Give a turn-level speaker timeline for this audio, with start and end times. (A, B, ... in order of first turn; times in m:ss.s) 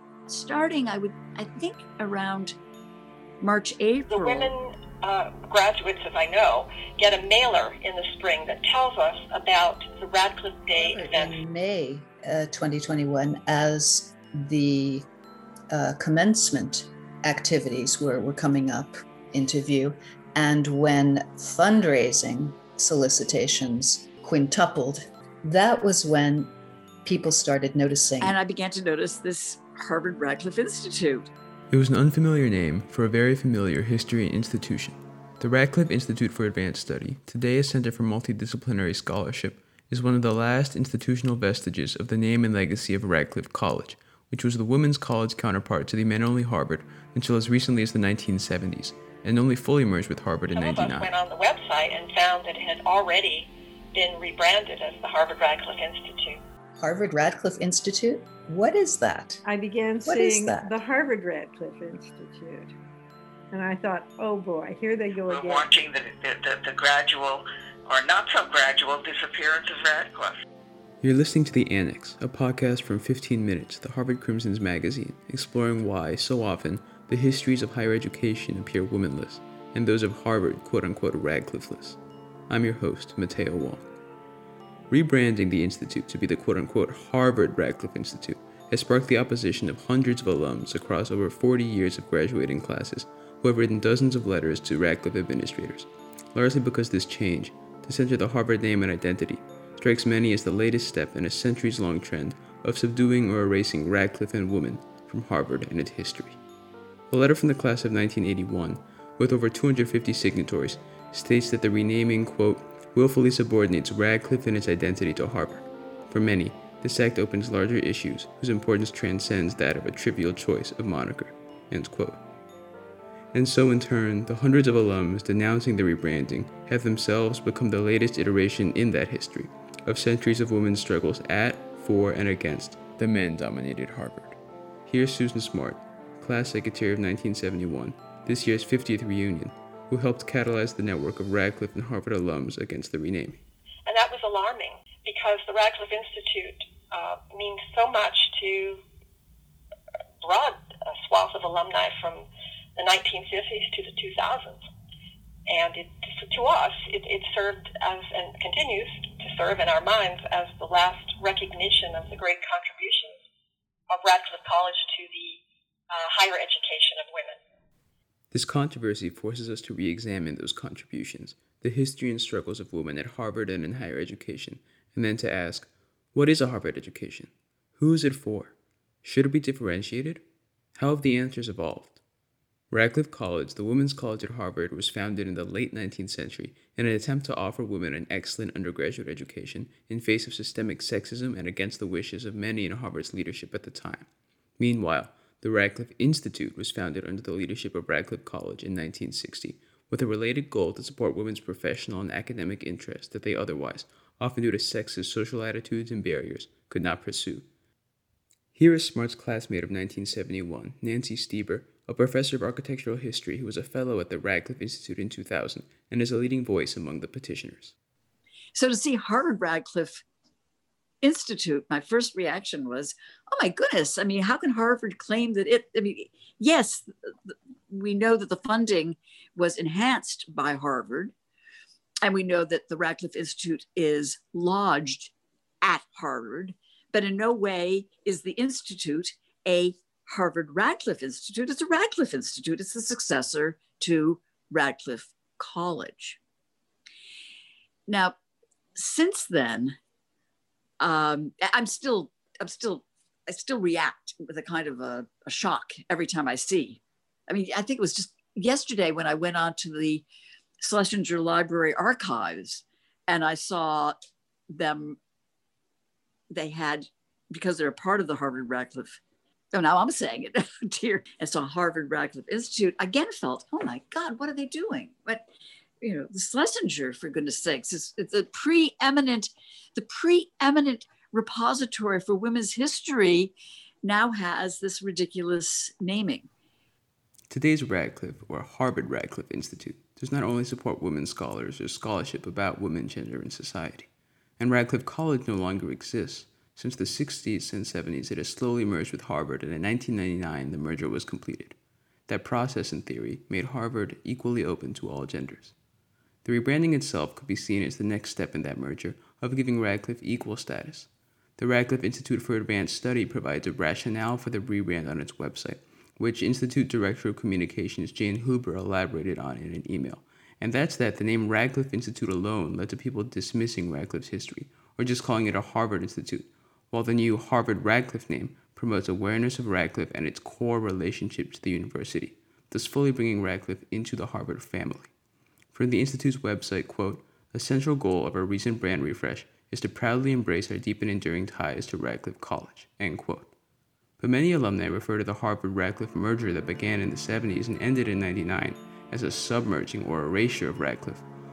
0:00.3-0:02.6 A
0:03.4-0:04.5 A
0:04.1-0:11.4 B
0:10.7-0:15.1 C
0:15.7-0:26.5 C
0:27.0-0:28.3 C
0:28.2-0:31.3 A
0:31.7-0:51.1 D
0:50.5-0:56.4 B
0:56.8-0:59.4 C
0:59.4-1:02.7 E
1:00.0-1:00.8 C
1:03.5-1:05.7 E
1:05.2-1:10.4 F
1:11.0-1:23.8 D
1:24.9-1:46.4 D
1:47.1-2:02.2 D
2:03.3-2:23.4 D
2:23.8-2:28.8 B
2:30.2-2:34.6 B
2:35.5-2:43.2 B
2:43.9-2:47.4 B
2:48.3-3:00.2 D
3:00.7-3:02.0 D
3:02.7-3:14.1 D
3:14.6-3:27.5 D
3:28.5-3:37.7 D
3:38.5-3:40.0 A
3:41.0-3:51.1 A
3:52.0-4:06.2 A
4:07.9-4:08.2 A
4:08.7-4:09.8 A
4:10.8-4:20.0 A
4:20.6-4:24.0 A
4:24.5-4:25.0 A
4:26.3-4:29.0 A
4:29.5-4:35.2 A
4:35.8-4:46.3 A
4:47.3-4:53.9 D
4:54.4-5:01.6 D
5:02.1-5:05.5 D
5:06.2-5:34.9 D
5:35.5-5:43.3 D
5:44.0-5:51.0 D